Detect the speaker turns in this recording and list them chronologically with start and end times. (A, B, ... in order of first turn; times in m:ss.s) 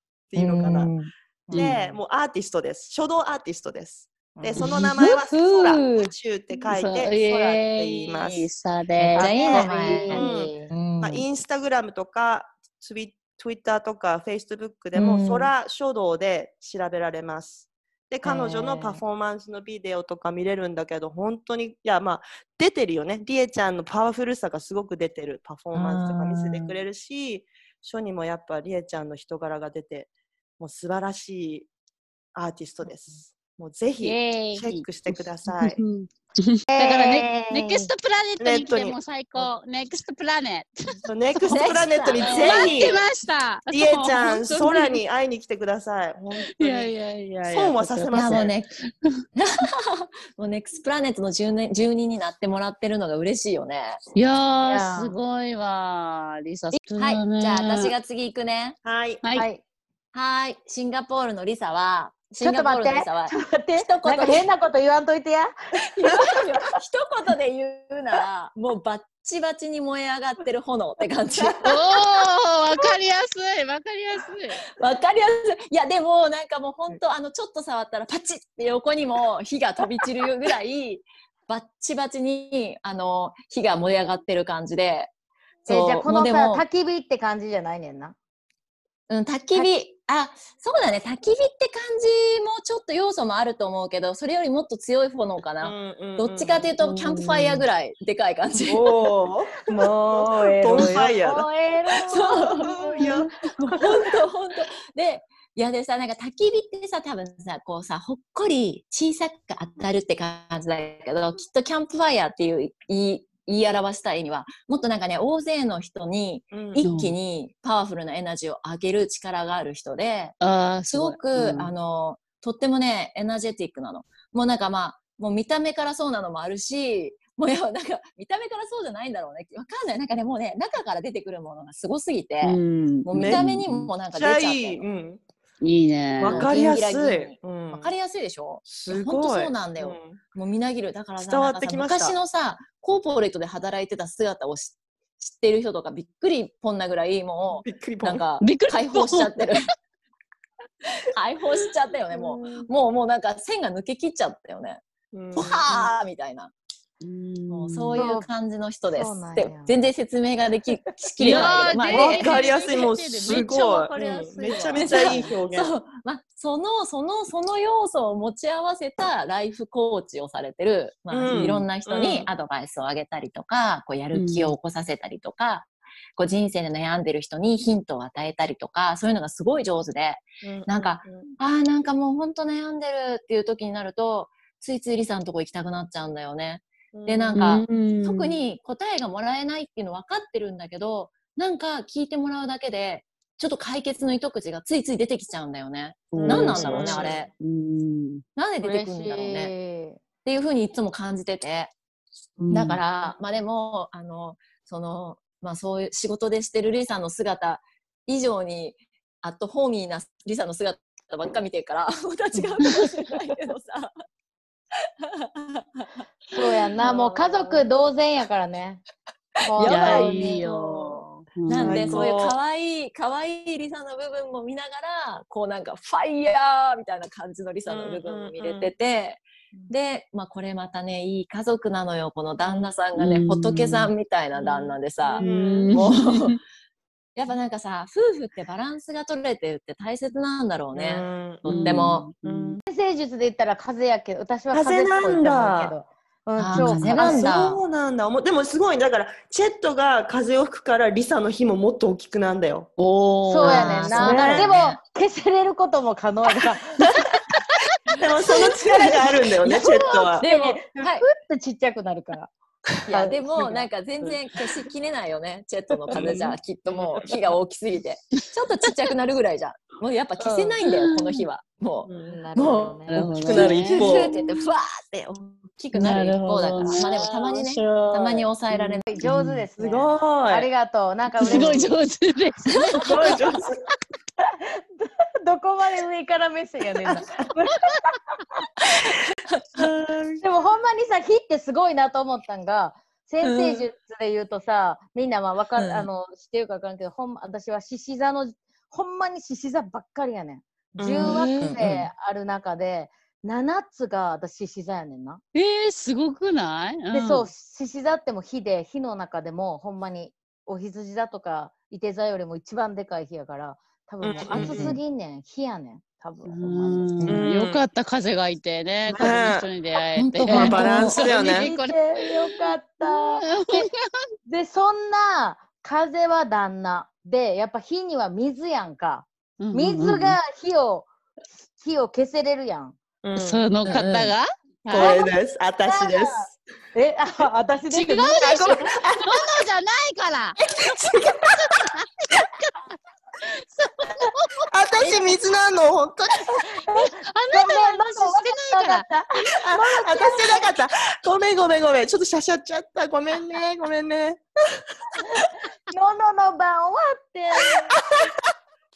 0:00.3-0:00.9 A
0:00.3-0:01.8 B
0:01.5-0:01.8 C
0:01.5-0:08.5 A
0:04.4-0:06.1 C
0:04.6-0:05.2 B
0:06.7-0:09.3 D
0:09.0-0:11.2 B
0:09.1-0:10.7 C
0:09.2-0:31.7 A
0:14.9-0:15.5 B
0:18.2-0:19.0 C
0:18.3-0:19.0 B
0:25.7-0:26.8 B
0:32.3-0:35.8 A
0:34.0-0:40.7 D
0:36.7-0:37.9 C
0:38.4-0:39.5 A
0:41.0-0:43.0 A
0:41.4-0:45.0 D
0:41.4-0:43.0 B
0:43.7-0:46.9 A
0:46.6-0:48.5 D
0:47.5-0:48.5 A
0:48.1-0:48.7 B
0:49.4-0:54.0 B
0:54.1-0:57.9 D
0:54.6-0:55.1 C
0:56.8-0:58.8 B
0:58.8-0:59.2 A
0:59.3-0:59.6 C
1:00.1-1:04.4 B
1:02.4-1:05.5 C
1:05.9-1:11.8 B
1:11.6-1:14.6 D
1:14.8-1:25.1 B
1:25.6-1:26.6 B
1:25.6-1:28.1 C
1:29.1-1:38.8 B
1:35.6-1:36.7 A
1:38.6-1:41.5 A
1:39.6-1:43.8 C
1:40.8-1:41.0 B
1:42.0-2:00.4 B
1:42.1-1:43.3 A
1:56.5-1:56.8 A
1:56.8-1:57.1 D
2:00.4-2:01.7 D
2:00.9-2:14.8 B
2:12.4-2:13.9 D
2:13.1-2:13.5 A
2:14.1-2:15.2 A
2:15.6-2:16.5 D
2:16.2-2:17.9 A
2:16.2-2:29.7 B
2:18.6-2:20.2 A
2:21.2-2:22.2 A
2:27.6-2:28.2 A
2:28.4-2:29.6 D
2:31.1-2:34.8 B
2:32.1-2:32.7 A
2:35.1-2:35.9 A
2:35.3-2:36.5 B
2:37.0-2:38.0 D
2:37.5-2:42.4 B
2:38.0-2:38.3 C
2:38.9-2:39.8 C
2:41.2-2:45.3 D
2:41.2-2:45.7 A
2:44.7-3:17.3 B
2:51.1-2:52.3 A
2:51.3-2:51.6 D
2:54.1-2:54.5 D
3:00.4-3:01.3 A
3:06.9-3:07.5 A
3:07.3-3:08.4 D
3:16.1-3:18.2 D
3:16.2-3:17.2 A
3:18.4-3:19.5 B
3:18.6-3:20.0 C
3:20.2-3:21.7 B
3:22.4-3:23.1 C
3:22.4-3:22.8 D
3:22.5-3:33.9 B
3:35.1-3:35.9 B
3:36.3-3:38.8 C
3:39.4-3:40.5 C
3:39.5-3:56.4 B
3:39.6-3:42.1 D
3:41.6-3:42.4 A
3:47.7-3:48.7 A
3:52.4-3:52.7 A
3:53.0-3:53.9 D
3:54.4-3:55.9 A
3:55.2-3:56.3 D
3:57.2-4:02.1 B
4:00.7-4:02.6 A
4:01.4-4:02.6 D
4:02.7-4:07.4 C
4:04.5-4:05.7 A
4:06.4-4:07.6 B
4:06.5-4:06.9 D
4:06.9-4:12.7 A
4:12.8-4:14.2 D
4:13.2-4:16.8 C
4:13.4-4:14.8 B
4:14.0-4:14.5 A
4:18.0-4:20.2 A
4:18.4-4:18.8 B
4:19.4-4:21.0 B
4:19.5-4:22.3 C
4:22.8-4:39.5 B
4:22.9-4:23.7 C
4:25.9-4:27.2 A
4:30.2-4:30.5 C
4:30.6-4:31.2 D
4:31.9-4:32.2 A
4:32.0-4:33.0 C
4:32.9-4:34.1 D
4:33.0-4:34.1 A
4:35.7-4:38.8 D
4:38.9-4:41.7 C
4:39.6-4:40.5 A
4:41.2-4:43.4 D
4:41.3-4:41.7 A
4:42.6-4:43.1 B
4:42.8-4:43.6 A
4:44.3-4:48.0 C
4:48.8-4:49.6 B
4:49.6-4:50.2 A
4:50.2-5:05.2 C
4:53.2-4:53.7 B
4:55.6-4:55.9 B
5:00.8-5:01.2 A
5:01.0-5:01.9 B
5:01.0-5:01.4 D
5:05.3-5:07.3 D
5:06.9-5:16.9 C
5:14.0-5:14.8 A
5:14.3-5:14.8 B
5:14.4-5:14.6 D
5:16.3-5:23.8 D
5:17.1-5:17.6 A
5:18.9-5:19.5 A
5:19.9-5:21.1 B
5:20.3-5:21.5 A
5:21.0-5:23.7 C
5:24.2-5:30.9 C
5:29.4-5:30.2 D
5:31.4-5:32.8 C
5:33.0-5:33.5 A
5:33.1-5:35.0 D
5:33.6-5:34.1 B
5:34.7-5:36.3 A
5:34.7-5:35.1 C
5:35.6-5:39.1 C
5:37.7-5:40.6 D
5:40.6-5:41.3 A
5:41.1-5:42.6 D
5:43.2-5:45.1 D
5:44.5-5:46.3 A
5:46.3-5:50.5 C
5:46.7-5:48.8 D
5:49.4-5:54.2 A
5:55.0-5:57.8 C